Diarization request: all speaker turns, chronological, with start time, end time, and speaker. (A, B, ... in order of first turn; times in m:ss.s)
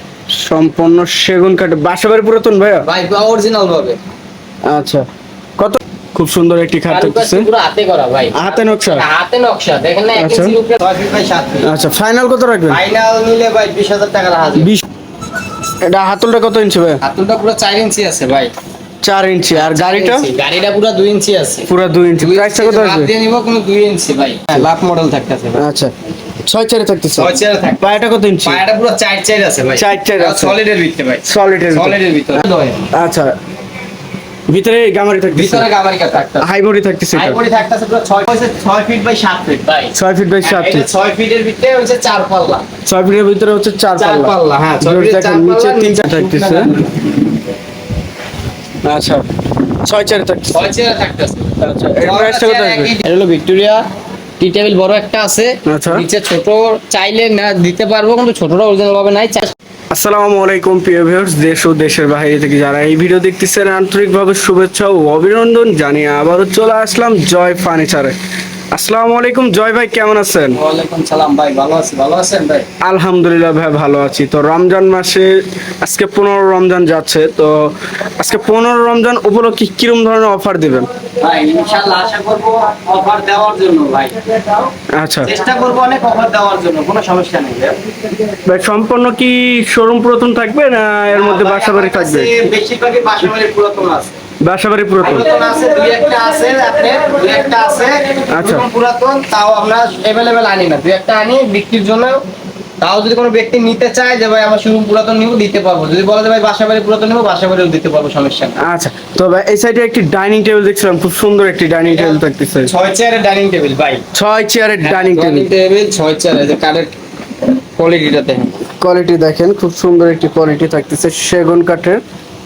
0:00.3-0:02.8 A
0:02.8-0:04.0 B
0:04.6-0:05.1 A
0:05.6-0:07.5 A
0:06.9-0:11.7 B
0:08.4-0:09.0 A
0:10.2-0:10.6 A
0:11.6-0:12.8 A
0:12.7-0:14.7 B
0:14.6-0:14.8 A
0:15.8-0:17.0 A
0:17.0-0:18.5 B
0:19.0-0:20.3 A
0:19.5-0:21.7 B
0:21.7-0:23.1 A
0:22.2-0:25.6 B
0:25.6-0:25.9 A
0:26.4-0:28.6 A
0:27.2-0:32.8 B
0:29.8-0:30.6 A
0:31.2-0:33.4 A
0:34.5-0:35.7 A
0:35.3-0:36.5 B
0:36.4-0:37.4 A
0:37.2-0:42.7 B
0:40.0-0:40.9 A
0:42.9-0:46.7 A
0:44.0-0:47.1 B
0:48.8-0:49.2 A
0:49.8-0:50.6 A
0:50.5-0:53.8 B
0:51.6-0:52.9 A
0:54.4-0:59.5 B
0:55.7-0:56.0 A
0:59.9-1:08.2 A
1:08.7-1:10.6 A
1:10.5-1:12.7 B
1:12.8-1:20.9 A
1:21.2-1:24.7 B
1:24.9-1:25.3 A
1:25.2-1:27.8 B
1:28.4-1:32.3 A
1:31.2-1:34.1 B
1:34.4-1:35.3 A
1:35.0-1:42.2 B
1:38.3-1:38.7 A
1:42.8-1:48.6 B
1:48.6-1:52.7 A
1:51.8-1:54.0 B
1:54.1-1:55.5 A
1:54.8-1:56.9 B
1:57.8-1:58.5 B
1:58.8-2:02.0 A